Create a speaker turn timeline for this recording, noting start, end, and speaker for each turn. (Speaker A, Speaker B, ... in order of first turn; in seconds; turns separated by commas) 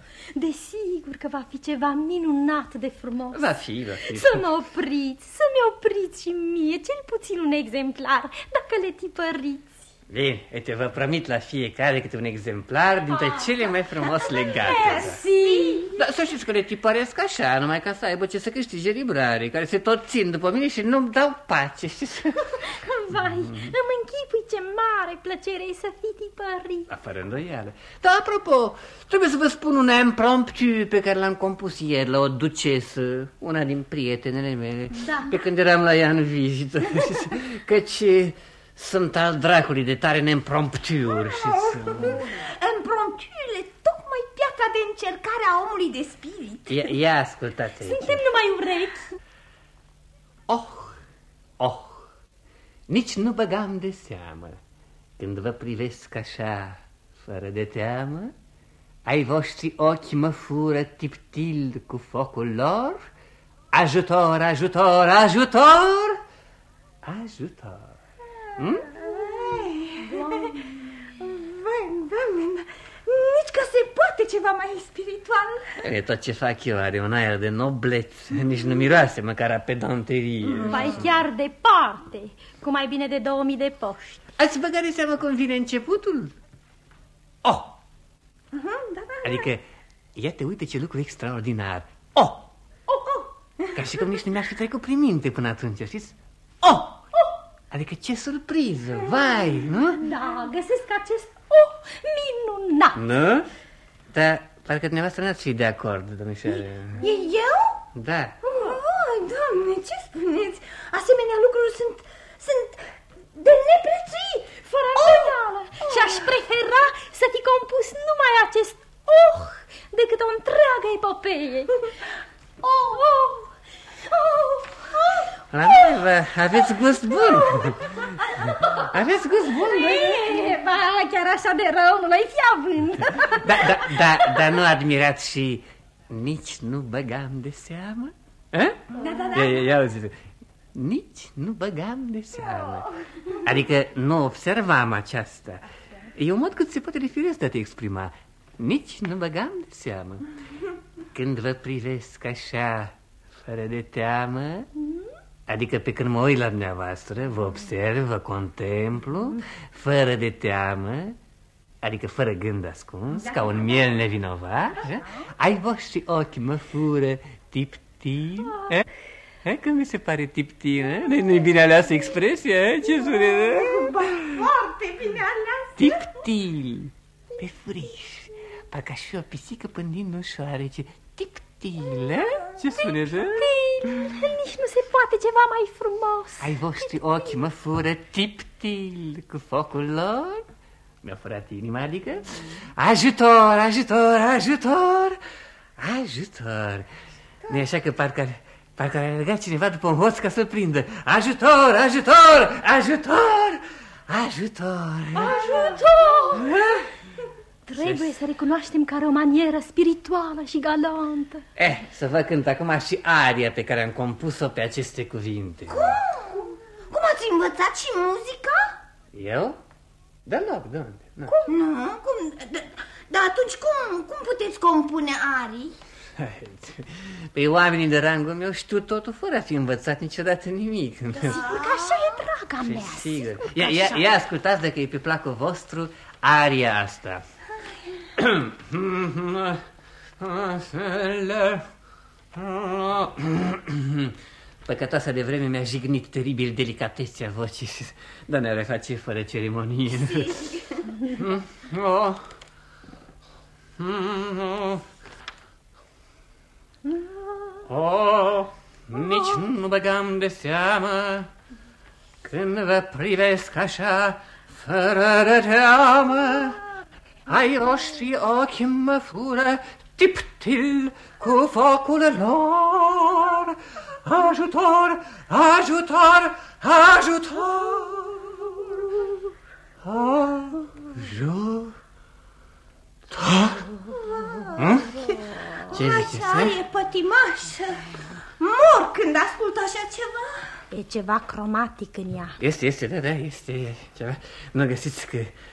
Speaker A: 0.3-3.4, Speaker B: 3.3-4.4, Speaker A: 4.1-9.8, Speaker B: 10.1-15.2, Speaker A: 13.1-13.4, Speaker A: 14.6-15.9, Speaker C: 14.6-16.0, Speaker B: 16.0-22.4, Speaker A: 22.8-26.9, Speaker B: 23.1-23.7, Speaker B: 26.9-42.1, Speaker A: 35.0-35.3, Speaker C: 41.3-46.9, Speaker B: 46.7-48.2, Speaker A: 47.8-49.0, Speaker B: 50.5-51.0, Speaker B: 51.6-52.1, Speaker B: 52.9-54.6, Speaker B: 55.2-58.3, Speaker B: 59.0-63.0, Speaker B: 63.7-66.2, Speaker B: 67.0-67.9, Speaker B: 68.6-68.8, Speaker C: 68.9-70.5, Speaker A: 70.1-70.5, Speaker C: 71.2-75.7, Speaker B: 75.8-81.1, Speaker A: 80.7-84.2, Speaker B: 84.4-86.3, Speaker B: 87.4-87.7, Speaker C: 88.5-89.5, Speaker B: 89.2-89.6, Speaker B: 90.2-92.5, Speaker C: 93.0-93.2, Speaker B: 93.7-97.0, Speaker B: 97.7-100.0, Speaker A: 100.0-103.0, Speaker B: 103.0-103.5, Speaker B: 104.1-107.0, Speaker C: 107.0-107.8, Speaker B: 107.9-108.3, Speaker C: 108.4-112.8, Speaker C: 113.3-116.2, Speaker A: 114.7-121.7, Speaker A: 122.6-123.5, Speaker A: 124.1-125.0, Speaker B: 125.5-127.9, Speaker B: 128.9-130.1, Speaker A: 129.7-133.9, Speaker B: 133.4-138.8, Speaker C: 139.0-139.7, Speaker B: 139.3-140.1, Speaker B: 140.7-142.8, Speaker C: 142.5-142.8, Speaker B: 143.4-145.6, Speaker B: 146.2-150.2, Speaker B: 151.1-152.9, Speaker B: 153.4-154.7, Speaker B: 155.5-161.2, Speaker B: 161.8-168.8, Speaker B: 169.4-173.8, Speaker C: 173.4-176.0, Speaker B: 175.8-184.0, Speaker A: 183.3-187.3, Speaker B: 186.4-190.4, Speaker B: 191.0-195.2, Speaker B: 195.8-196.9, Speaker B: 197.5-205.5, Speaker A: 205.2-206.4, Speaker C: 205.2-205.8, Speaker B: 206.3-206.8, Speaker A: 207.7-211.4, Speaker B: 207.8-208.1, Speaker B: 211.6-215.9, Speaker C: 215.7-218.7, Speaker B: 219.1-219.6, Speaker B: 220.2-221.3, Speaker C: 221.3-225.7, Speaker B: 226.2-231.4, Speaker C: 231.2-232.1, Speaker A: 231.2-234.1, Speaker B: 232.6-237.2, Speaker B: 238.2-239.6, Speaker B: 240.2-241.6, Speaker B: 242.3-244.1, Speaker B: 244.6-250.4, Speaker C: 250.2-250.7, Speaker B: 251.1-252.2, Speaker B: 253.8-254.8, Speaker B: 257.7-261.3, Speaker B: 262.2-266.6, Speaker B: 267.3-278.6, Speaker B: 279.8-281.7, Speaker B: 283.1-283.6, Speaker C: 283.9-285.2, Speaker B: 284.6-284.9, Speaker B: 285.7-286.6, Speaker C: 285.7-287.8, Speaker C: 288.4-290.5, Speaker A: 290.7-292.3, Speaker B: 292.4-295.3